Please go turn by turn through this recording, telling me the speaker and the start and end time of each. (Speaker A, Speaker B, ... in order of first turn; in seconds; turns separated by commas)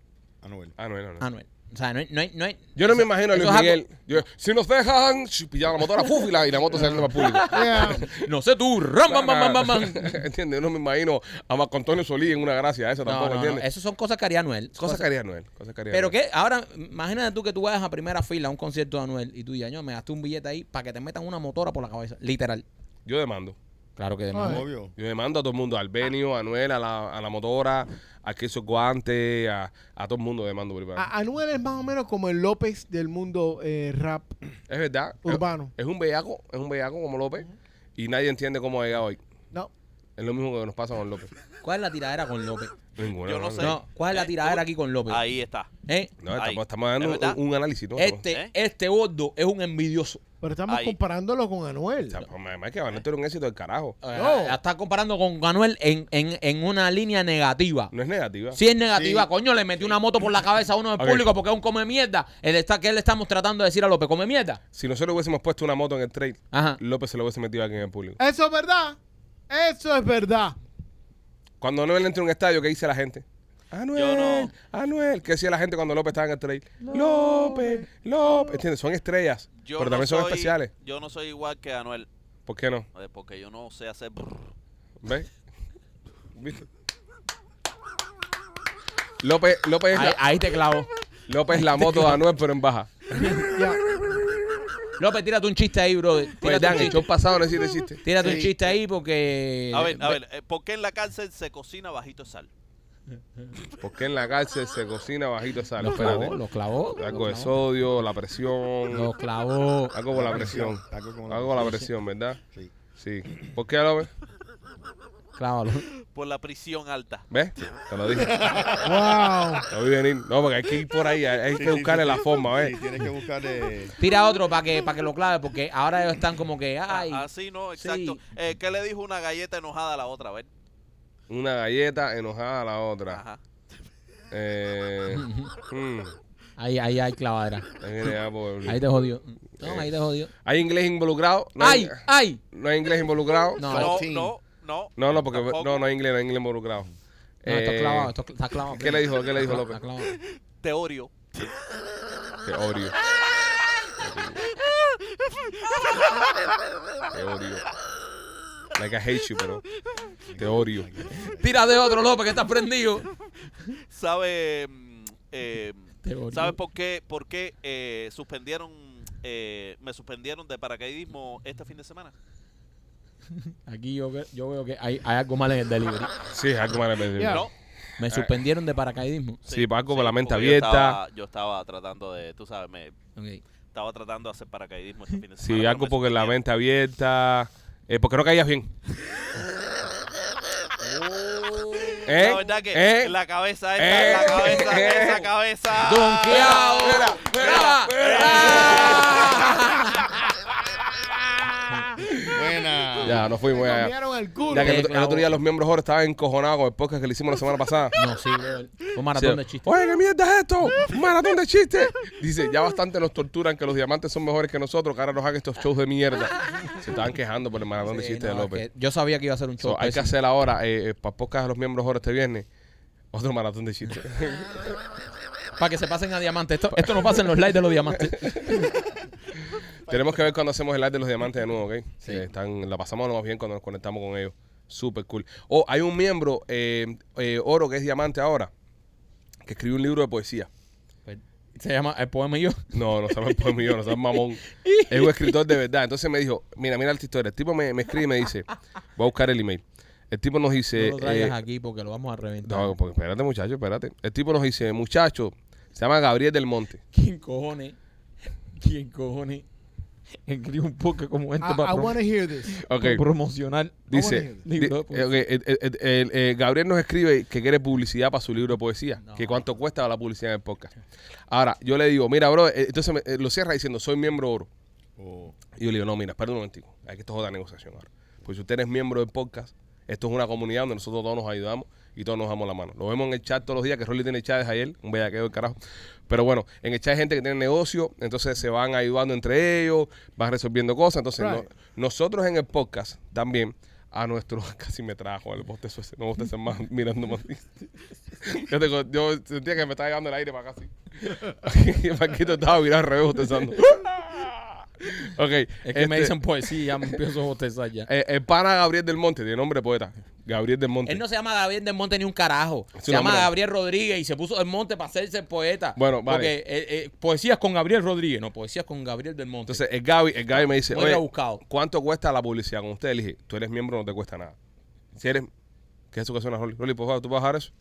Speaker A: 0.4-0.7, Speaker B: 0.8-1.2, Speaker C: 1.2-3.8, Speaker B: 2.8-8.1, Speaker C: 6.9-10.2, Speaker D: 7.5-8.0, Speaker B: 9.1-13.6, Speaker C: 13.0-15.1, Speaker B: 14.8-16.1, Speaker C: 15.9-22.6, Speaker B: 23.0-23.6, Speaker C: 24.0-24.6, Speaker D: 24.3-24.6, Speaker A: 24.4-24.9, Speaker B: 24.9-31.1, Speaker D: 30.9-34.4, Speaker B: 34.7-39.2, Speaker D: 35.2-35.7, Speaker B: 40.2-41.3, Speaker C: 41.6-42.7, Speaker B: 43.0-43.7, Speaker E: 43.2-45.7, Speaker C: 43.6-45.2, Speaker C: 45.9-46.1, Speaker B: 46.2-48.2, Speaker E: 46.3-47.4, Speaker C: 48.0-50.2, Speaker D: 50.4-52.2, Speaker E: 50.7-51.0, Speaker B: 52.1-54.0, Speaker C: 54.0-57.9, Speaker D: 54.1-54.6, Speaker B: 57.9-58.6, Speaker C: 58.5-64.6, Speaker A: 58.9-59.3, Speaker B: 61.0-61.2, Speaker B: 64.7-68.2, Speaker C: 66.5-66.8, Speaker D: 68.2-69.0, Speaker D: 69.5-70.5, Speaker B: 71.6-80.7, Speaker E: 73.9-74.5, Speaker E: 79.6-82.1, Speaker B: 82.5-82.8, Speaker E: 82.9-84.5, Speaker B: 85.0-85.3, Speaker B: 86.3-86.7, Speaker B: 89.2-90.2, Speaker C: 89.9-90.9, Speaker B: 91.3-94.0, Speaker C: 91.6-92.2, Speaker D: 93.4-93.8, Speaker C: 95.0-97.0, Speaker B: 96.4-98.3, Speaker C: 98.0-100.2, Speaker A: 98.2-98.5, Speaker E: 99.7-102.5, Speaker B: 103.8-109.1, Speaker C: 105.8-107.5, Speaker C: 108.9-110.0, Speaker B: 109.9-112.4, Speaker A: 110.1-111.9, Speaker A: 112.5-112.7, Speaker B: 112.9-114.1, Speaker C: 115.4-115.9, Speaker E: 116.1-117.2, Speaker B: 117.3-118.7, Speaker A: 118.2-119.3, Speaker D: 118.8-119.7, Speaker B: 119.7-122.7, Speaker A: 121.5-123.9, Speaker C: 124.0-127.2, Speaker E: 126.9-130.5, Speaker C: 127.8-128.2, Speaker B: 131.3-133.2, Speaker E: 133.1-133.4, Speaker B: 134.3-136.1, Speaker C: 135.1-135.5, Speaker C: 136.6-137.7, Speaker B: 137.8-138.8, Speaker C: 138.6-140.3, Speaker B: 139.6-139.9, Speaker B: 140.4-143.9, Speaker C: 141.6-142.4, Speaker C: 143.6-144.0, Speaker A: 143.6-144.3, Speaker E: 143.7-145.8, Speaker B: 145.0-146.9, Speaker B: 147.4-148.1, Speaker C: 147.4-150.1, Speaker B: 148.7-149.8, Speaker E: 150.6-151.3, Speaker B: 152.4-152.9, Speaker B: 154.0-154.5, Speaker B: 157.1-157.6, Speaker B: 158.7-159.6, Speaker A: 160.3-161.5, Speaker B: 160.4-160.9, Speaker C: 161.3-163.1, Speaker E: 163.9-172.1, Speaker C: 166.0-166.6, Speaker C: 173.7-176.1, Speaker B: 176.3-177.4, Speaker D: 177.2-177.4, Speaker E: 177.2-177.5, Speaker C: 178.0-179.4, Speaker B: 179.4-181.0, Speaker E: 179.5-182.9, Speaker C: 183.2-183.4, Speaker E: 183.7-186.3, Speaker B: 185.4-188.7, Speaker C: 191.0-192.0, Speaker E: 192.0-199.1, Speaker B: 192.1-193.1, Speaker B: 193.8-195.3, Speaker C: 195.8-200.1, Speaker B: 196.3-199.5, Speaker A: 202.2-203.3, Speaker B: 203.0-203.9, Speaker D: 203.5-204.8, Speaker B: 204.5-207.9, Speaker C: 204.5-205.2, Speaker C: 207.9-209.7, Speaker B: 209.1-218.6, Speaker C: 217.8-220.1, Speaker B: 219.6-222.4, Speaker B: 223.1-224.6, Speaker C: 225.6-228.7, Speaker B: 226.8-227.1, Speaker B: 228.0-228.7, Speaker B: 229.9-238.5, Speaker B: 239.4-240.5, Speaker C: 241.1-243.8, Speaker B: 242.7-251.4, Speaker C: 244.6-245.4, Speaker C: 250.7-252.8, Speaker B: 252.4-256.8, Speaker C: 256.9-257.8, Speaker C: 258.6-259.4, Speaker C: 260.2-265.2, Speaker D: 261.4-262.6, Speaker B: 262.6-263.0, Speaker B: 263.9-270.7, Speaker D: 263.9-264.5, Speaker C: 269.0-269.5, Speaker B: 271.3-274.5, Speaker A: 275.0-275.4, Speaker B: 275.5-285.6, Speaker B: 286.1-297.5, Speaker D: 291.2-291.5, Speaker B: 298.2-306.2, Speaker C: 305.6-307.9, Speaker B: 307.9-311.0, Speaker C: 310.8-319.6, Speaker B: 312.8-313.3, Speaker B: 315.8-316.3, Speaker B: 319.5-324.3, Speaker C: 320.3-321.4, Speaker B: 324.9-325.3, Speaker B: 325.9-327.5